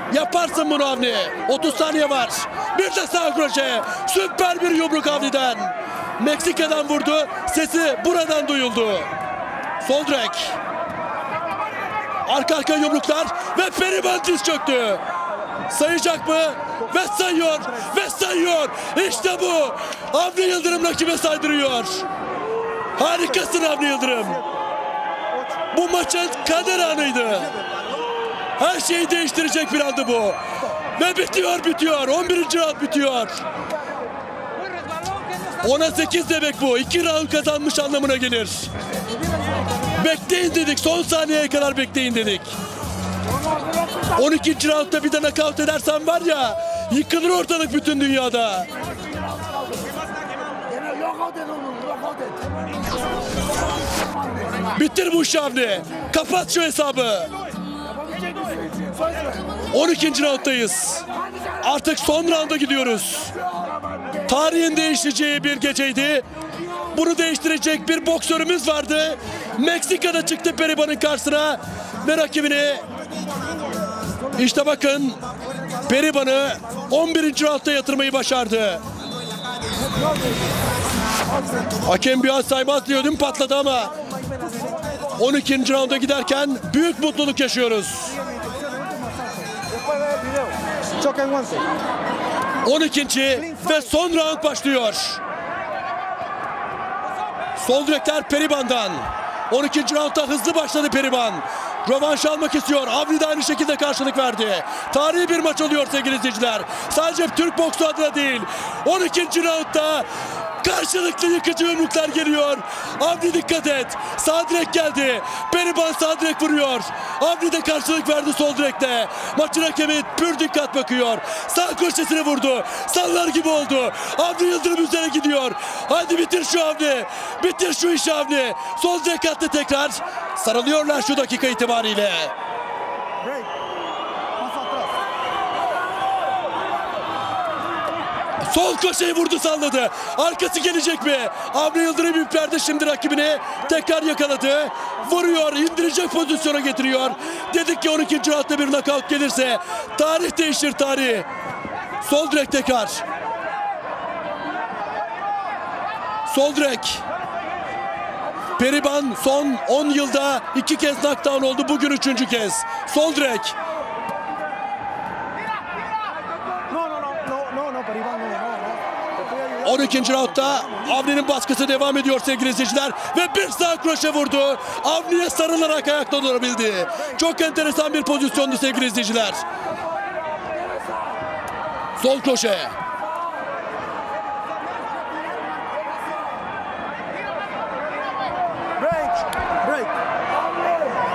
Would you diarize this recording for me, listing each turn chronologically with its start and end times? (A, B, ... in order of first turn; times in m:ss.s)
0:00.1-0:09.1 A
0:09.8-0:10.6 A
0:12.2-0:15.0 A
0:15.7-0:22.0 A
0:17.6-0:17.9 B
0:23.0-0:24.4 A
0:23.0-0:24.4 B
0:25.3-0:28.0 B
0:25.7-0:27.5 A
0:28.6-0:30.4 A
0:31.0-0:33.4 A
0:35.6-0:38.7 A
0:40.0-0:42.5 A
0:44.1-0:48.7 A
0:54.7-0:57.3 A
0:59.7-1:01.0 A
1:01.6-1:03.3 A
1:04.3-1:06.2 A
1:06.9-1:12.8 A
1:14.4-1:15.2 A
1:15.8-1:18.8 A
1:21.8-1:23.9 A
1:24.3-1:24.8 B
1:25.2-1:28.1 A
1:28.1-1:31.7 B
1:32.6-1:35.2 A
1:33.4-1:33.9 B
1:37.6-1:50.0 A
1:50.6-2:12.3 A
2:13.2-2:13.5 B
2:14.4-2:14.9 B
2:18.4-2:31.3 A
2:32.0-2:33.0 A
2:36.3-2:37.0 A
2:38.6-2:43.5 A
2:46.7-2:51.0 B
2:49.6-2:59.4 A
3:02.0-3:02.7 A
3:08.8-3:10.0 B